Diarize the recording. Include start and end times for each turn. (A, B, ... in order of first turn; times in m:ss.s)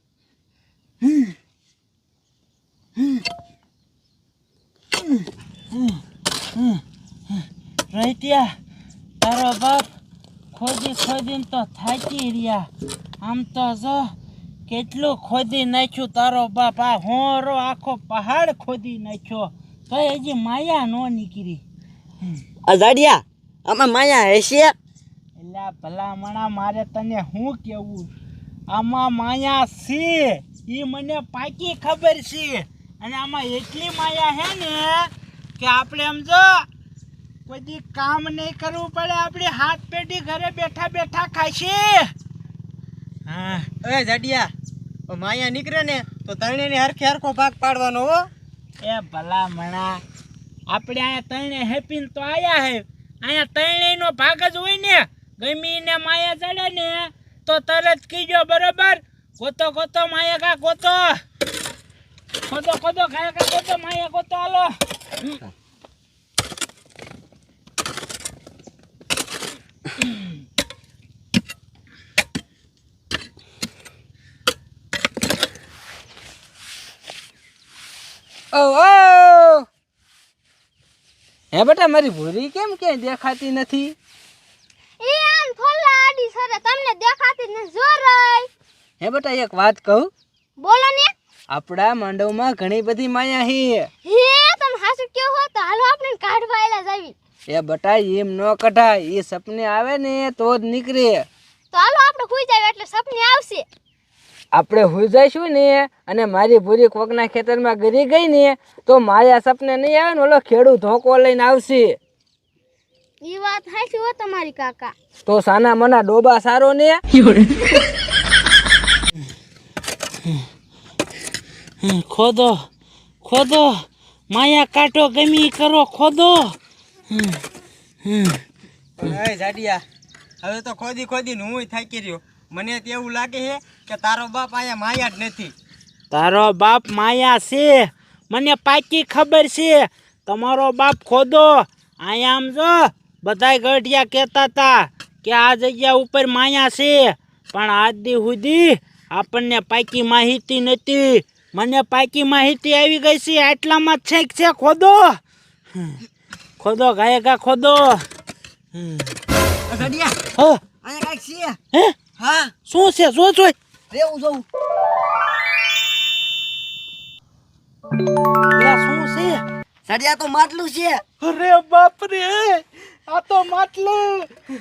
0:05.7-0:06.0 A
0:06.6-0:08.5 A
0:09.2-0:09.9 A
0:10.5-0:12.7 A
0:13.2-0:14.1 A
0:14.7-0:21.6 A
0:22.6-0:24.7 B
0:25.4-0:28.1 A
0:28.7-0:36.6 A
0:37.4-0:42.1 A
0:43.3-0:43.7 A
0:43.8-0:44.5 C
0:45.1-0:48.3 C
0:48.8-0:50.0 A
0:50.7-1:01.2 A
1:02.5-1:04.8 A
1:18.5-1:19.6 D
1:21.5-1:24.0 D
1:25.0-1:28.5 E
1:29.0-1:30.1 D
1:30.6-1:31.1 E
1:31.5-1:33.9 D
1:34.0-1:37.1 E
1:37.5-1:41.3 D
1:41.7-1:43.6 E
1:44.5-1:52.0 D
1:53.2-1:54.9 E
1:55.3-1:57.0 D
2:01.8-2:02.6 A
2:03.2-2:06.6 A
2:07.1-2:07.4 A
2:08.0-2:08.4 A
2:09.0-2:09.8 C
2:10.4-2:15.5 C
2:16.1-2:35.2 A
2:36.6-2:38.0 A
2:38.8-2:39.0 A
2:39.7-2:40.2 B
2:40.8-2:41.6 B
2:41.7-2:42.0 A
2:42.2-2:42.5 B
2:42.6-2:43.5 A
2:43.9-2:44.4 B
2:48.6-2:49.4 A
2:49.8-2:51.0 B
2:51.2-2:54.3 A